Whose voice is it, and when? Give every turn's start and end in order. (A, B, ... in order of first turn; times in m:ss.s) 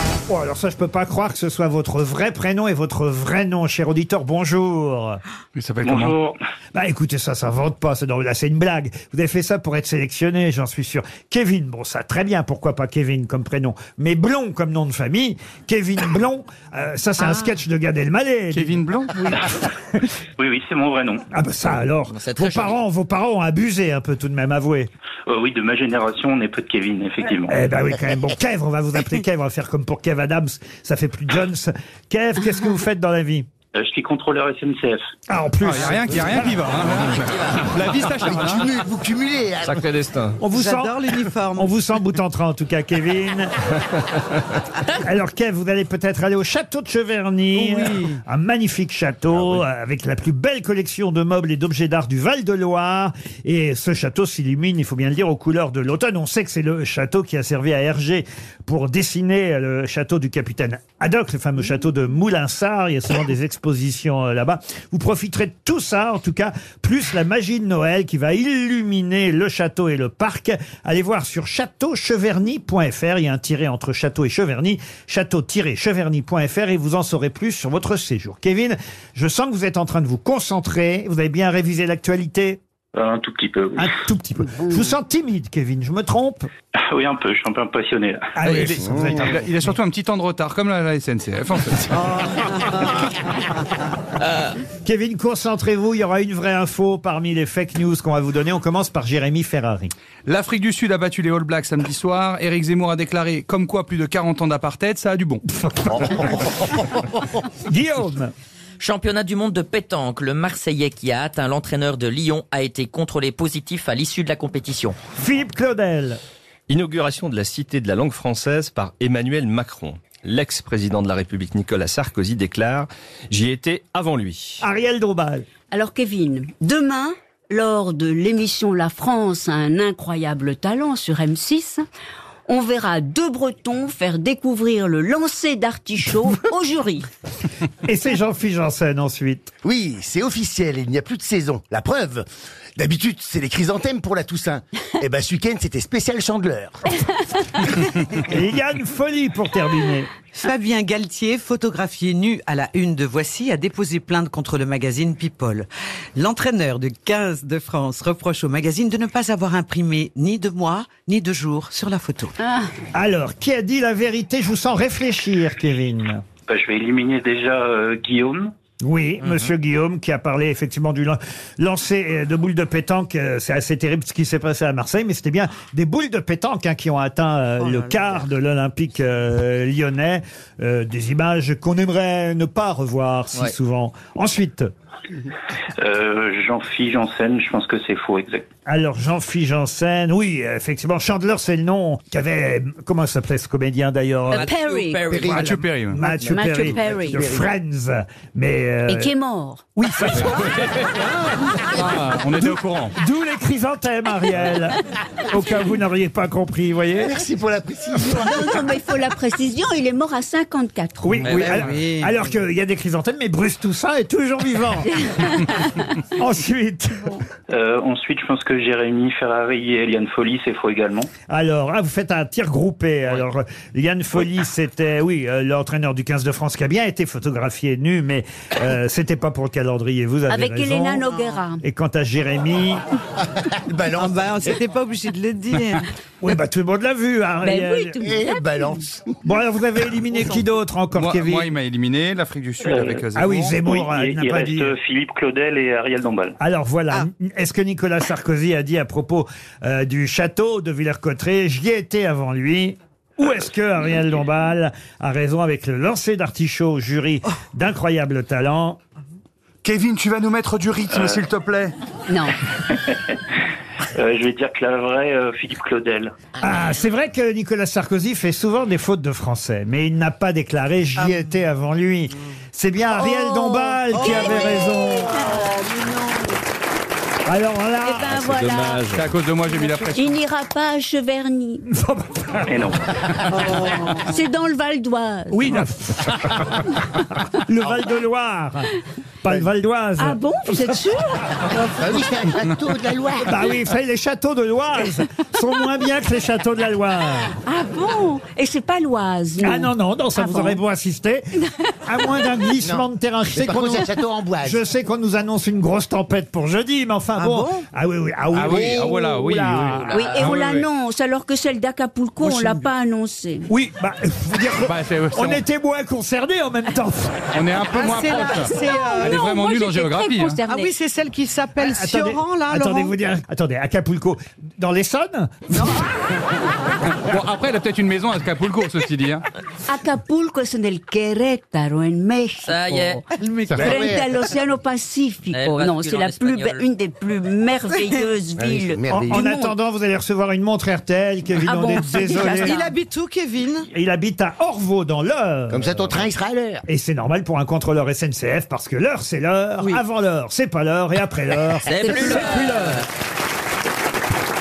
0:00.3-0:05.2 A
0:05.6-0:06.1 B
0:05.8-0:06.4 C
0:06.7-0:18.8 A
0:18.5-0:19.5 B
0:20.4-0:21.2 C
0:21.3-0:24.9 A
0:22.1-0:22.8 D
0:25.3-0:27.6 C
0:27.5-0:33.5 A
0:33.8-0:35.0 C
0:35.3-0:36.5 A
0:35.6-0:38.7 B
0:38.2-0:39.9 E
0:40.4-0:41.0 A
0:40.5-0:41.7 F
0:41.5-0:43.5 A
0:44.9-1:22.6 A
0:47.6-0:48.2 F
1:23.0-1:23.9 C
1:23.8-1:26.5 A
1:26.9-1:28.2 C
1:28.4-1:29.7 A
1:28.4-1:32.5 B
1:34.8-1:39.9 A
1:40.3-1:45.4 B
1:45.5-1:46.4 A
1:46.1-1:46.5 E
1:47.5-1:48.3 A
1:48.8-1:55.0 D
1:55.1-1:56.2 A
1:56.7-2:04.6 G
2:04.6-2:05.5 A
2:05.7-2:11.8 H
2:12.5-2:17.1 H
2:17.8-2:19.5 A
2:19.6-2:22.3 E
2:22.8-2:26.9 E
2:28.2-2:30.1 A
2:30.4-2:42.3 F
2:42.9-2:46.2 A
2:46.5-2:48.5 C
2:48.8-3:04.7 A
2:57.6-2:58.2 F
3:05.8-3:08.4 C
3:08.7-3:14.5 A
3:14.3-3:15.2 H
3:14.3-3:15.6 D
3:15.1-3:15.7 E
3:15.2-3:19.1 A
3:15.4-3:15.9 B
3:16.0-3:17.2 H
3:17.1-3:17.5 E
3:18.9-3:19.6 H
3:19.8-3:20.5 A
3:21.8-3:22.9 B
3:22.4-3:27.2 A
3:27.0-3:28.5 E
3:28.0-3:31.3 H
3:31.0-3:37.2 A
3:31.3-3:32.1 F
3:37.5-3:41.1 C
3:41.3-3:51.0 A
3:50.3-3:51.6 H
3:51.6-3:52.8 A
3:53.4-3:54.6 E
3:53.9-3:55.8 F
3:56.2-3:58.0 A
3:57.4-3:58.2 H
3:58.0-3:59.2 E
3:59.2-4:01.5 A
4:01.0-4:03.6 B
4:02.6-4:03.0 C
4:03.1-4:04.8 A
4:03.6-4:06.4 C
4:06.4-4:18.8 A
4:19.8-4:21.7 B
4:20.9-4:21.3 C
4:22.1-4:22.4 H
4:22.7-4:23.2 C
4:24.0-4:26.1 C
4:26.4-4:35.3 A
4:34.0-4:34.3 F
4:35.5-4:36.1 F
4:37.3-4:38.1 A
4:37.8-4:39.0 H
4:38.2-4:39.0 G
4:38.9-4:40.2 B
4:39.6-4:41.6 H
4:41.7-4:42.6 A
4:42.5-4:42.8 C
4:44.0-4:45.4 H
4:45.3-4:48.7 A
4:49.2-4:50.8 A
4:50.0-4:51.3 H
4:51.5-4:53.3 E
4:53.2-4:57.3 A
4:57.4-5:00.6 H
4:59.4-5:10.0 A
5:02.6-5:04.6 E
5:07.2-5:07.6 F
5:08.3-5:10.7 B
5:08.4-5:09.0 E
5:09.9-5:13.5 H
5:12.2-5:12.7 A
5:13.5-5:17.3 A
5:14.6-5:15.4 B
5:17.3-5:20.4 B
5:17.7-5:19.2 F
5:18.3-5:20.7 H
5:20.5-5:22.9 F
5:21.6-5:25.8 A
5:27.0-5:29.2 B
5:29.7-5:39.6 H
5:32.4-5:33.0 D
5:33.2-5:33.8 F
5:33.5-5:34.1 E
5:35.3-5:36.6 D
5:38.4-5:39.2 E
5:38.9-5:42.6 A
5:41.4-5:42.7 H
5:42.3-5:43.7 F
5:43.7-5:46.1 A
5:45.5-5:46.6 E
5:46.7-5:52.8 A
5:51.7-5:52.8 D
5:51.8-5:52.3 H